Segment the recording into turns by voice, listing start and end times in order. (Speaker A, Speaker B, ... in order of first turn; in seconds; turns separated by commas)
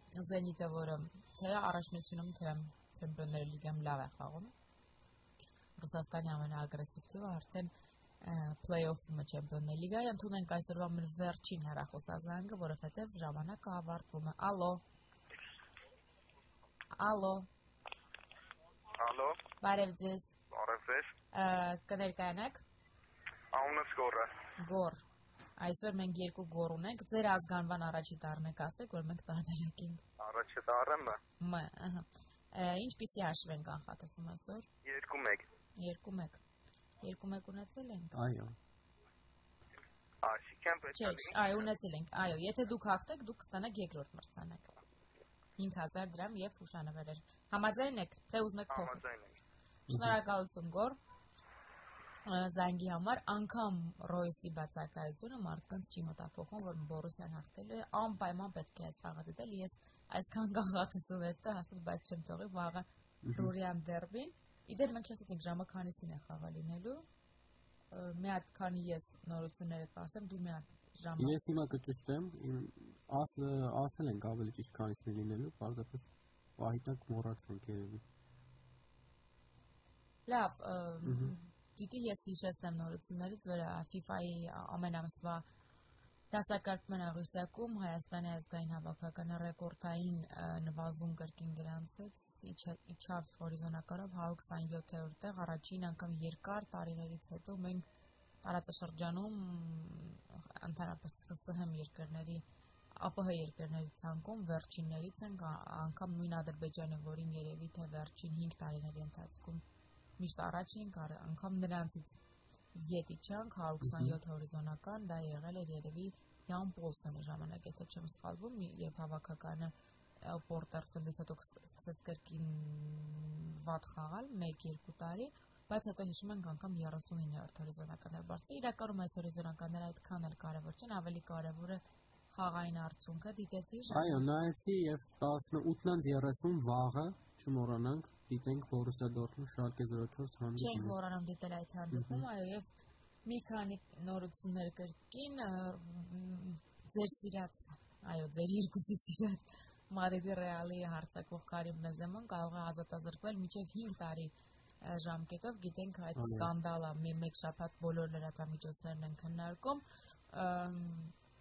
Speaker A: 0.2-4.5, Speaker A: 5.8-7.7, Speaker A: 8.2-14.8, Speaker A: 17.0-17.5, Speaker B: 19.0-19.4, Speaker A: 19.6-20.3, Speaker B: 20.5-21.1, Speaker A: 21.3-22.6, Speaker B: 23.5-24.3, Speaker A: 24.6-25.0, Speaker A: 25.6-30.0, Speaker B: 30.2-31.2, Speaker A: 31.4-34.7, Speaker B: 34.8-35.5, Speaker A: 35.8-36.4, Speaker A: 37.0-38.2, Speaker C: 38.1-38.6, Speaker B: 40.2-41.6, Speaker A: 40.9-44.8, Speaker A: 45.6-49.0, Speaker B: 48.7-49.4, Speaker C: 49.9-50.1, Speaker A: 49.9-51.0, Speaker A: 52.3-67.0, Speaker C: 63.2-63.5, Speaker A: 67.9-71.4, Speaker C: 71.2-78.0, Speaker A: 80.3-85.4, Speaker C: 81.0-81.3, Speaker A: 86.3-97.8, Speaker A: 98.4-102.4, Speaker A: 103.0-109.6, Speaker A: 110.2-112.2, Speaker A: 112.7-134.2, Speaker C: 113.8-114.2, Speaker C: 133.9-140.9, Speaker A: 140.6-142.7, Speaker C: 141.9-142.3, Speaker A: 143.2-161.1, Speaker C: 156.2-156.5